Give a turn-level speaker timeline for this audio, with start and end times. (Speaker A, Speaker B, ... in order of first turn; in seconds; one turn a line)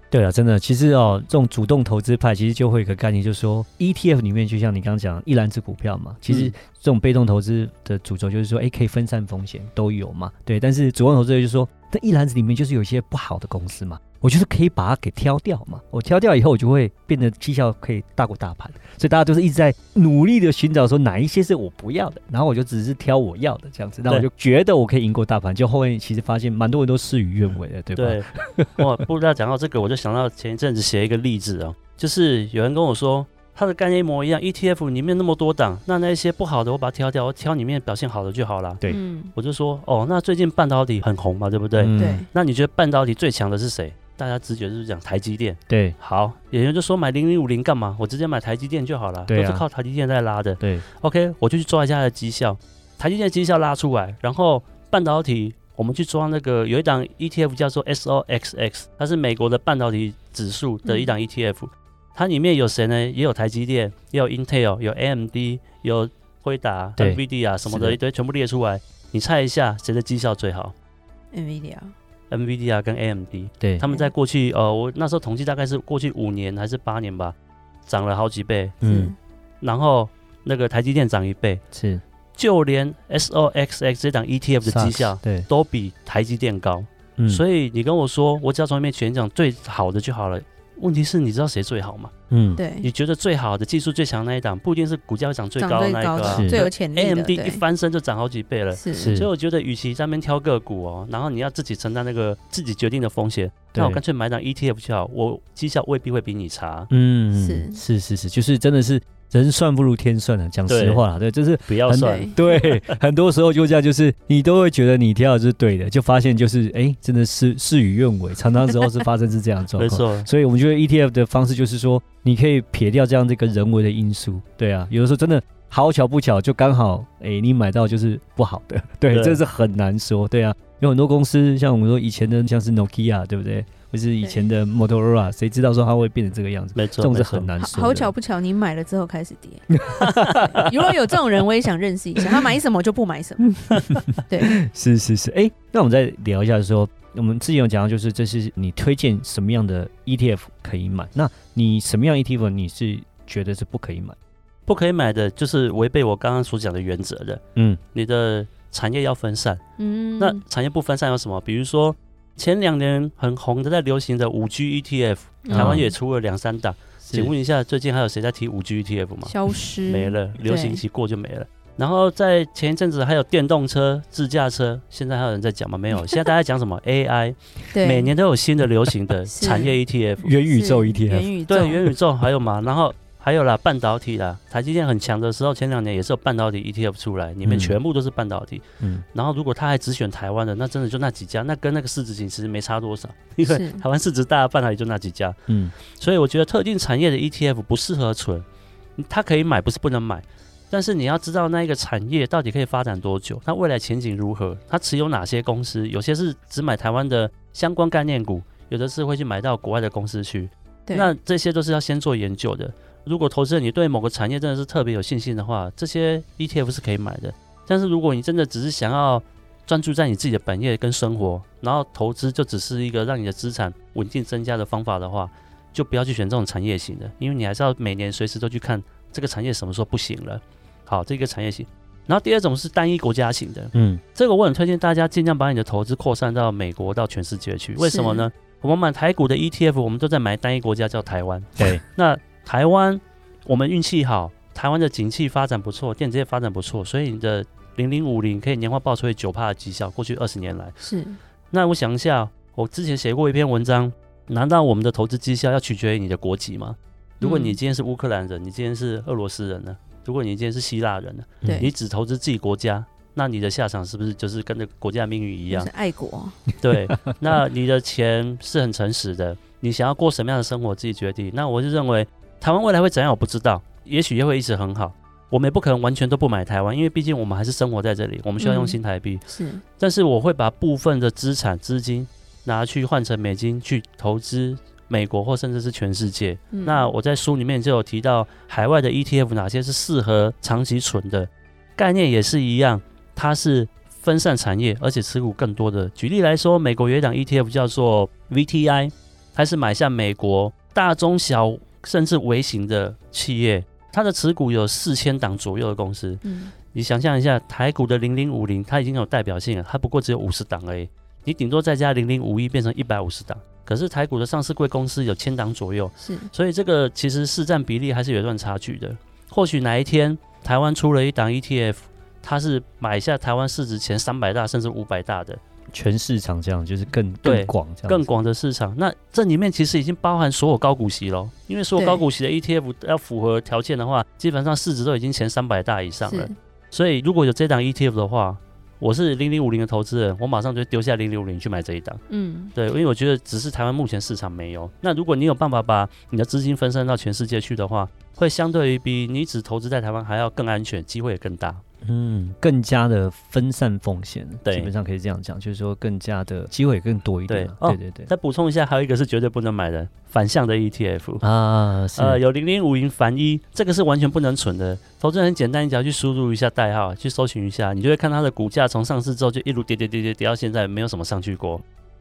Speaker A: 0.1-28.8
Speaker B: 6.3-6.5
Speaker B: 27.9-70.7
Speaker C: 38.9-39.3
Speaker A: 41.8-42.2
Speaker C: 42.0-42.3
Speaker A: 45.7-46.0
Speaker A: 49.3-49.6
Speaker C: 60.8-61.1
Speaker A: 67.0-68.0
Speaker C: 71.3-71.9
Speaker B: 72.3-77.3
Speaker A: 73.6-73.8
Speaker B: 77.9-78.8
Speaker A: 78.8-79.1
Speaker C: 78.8-79.1
Speaker B: 79.6-81.6
Speaker A: 81.7-82.0
Speaker B: 82.3-92.1
Speaker A: 84.6-85.5
Speaker A: 87.2-87.4
Speaker A: 92.3-92.6
Speaker C: 92.5-92.9
Speaker B: 92.8-106.9
Speaker C: 95.6-97.6
Speaker A: 96.3-96.6
Speaker C: 98.7-99.2
Speaker A: 99.0-99.3
Speaker A: 103.7-104.0
Speaker A: 106.9-138.1
Speaker C: 107.3-107.8
Speaker B: 110.7-111.0
Speaker B: 111.6-112.9
Speaker C: 112.0-112.4
Speaker B: 119.7-120.3
Speaker B: 129.1-129.4
Speaker C: 134.2-134.5
Speaker B: 136.7-137.5
Speaker C: 137.6-144.6
Speaker A: 144.5-154.2
Speaker B: 154.7-157.4
Speaker A: 157.6-157.8
Speaker B: 157.9-159.6
Speaker C: 159.8-160.4
Speaker B: 160.2-169.3
Speaker C: 165.4-165.9
Speaker A: 165.5-165.9
Speaker A: 167.0-167.3
Speaker C: 169.2-170.8
Speaker B: 169.8-180.3
Speaker C: 177.7-178.1
Speaker C: 179.3-179.8
Speaker A: 180.2-181.3
Speaker C: 180.4-181.8
Speaker B: 181.5-198.4
Speaker A: 187.4-187.8
Speaker C: 193.4-193.8
Speaker A: 195.5-195.7
Speaker B: 199.0-250.7
Speaker C: 210.9-211.1
Speaker A: 233.7-234.0
Speaker C: 237.8-238.3
Speaker C: 250.8-251.2
Speaker B: 251.5-265.7
Speaker C: 257.2-257.6
Speaker A: 261.4-261.7
Speaker C: 261.4-261.7
Speaker C: 265.5-266.4
Speaker B: 266.6-279.2
Speaker C: 278.4-279.6
Speaker B: 279.8-325.4
Speaker C: 286.5-286.9
Speaker C: 306.2-306.5
Speaker C: 316.0-316.3
Speaker A: 325.7-328.0
Speaker B: 327.2-342.0
Speaker C: 331.8-332.0
Speaker C: 336.0-336.3
Speaker C: 342.1-342.5
Speaker B: 342.5-351.6
Speaker A: 351.8-358.1
Speaker B: 354.4-354.7
Speaker B: 357.3-361.2
Speaker A: 361.2-362.2
Speaker B: 361.9-371.6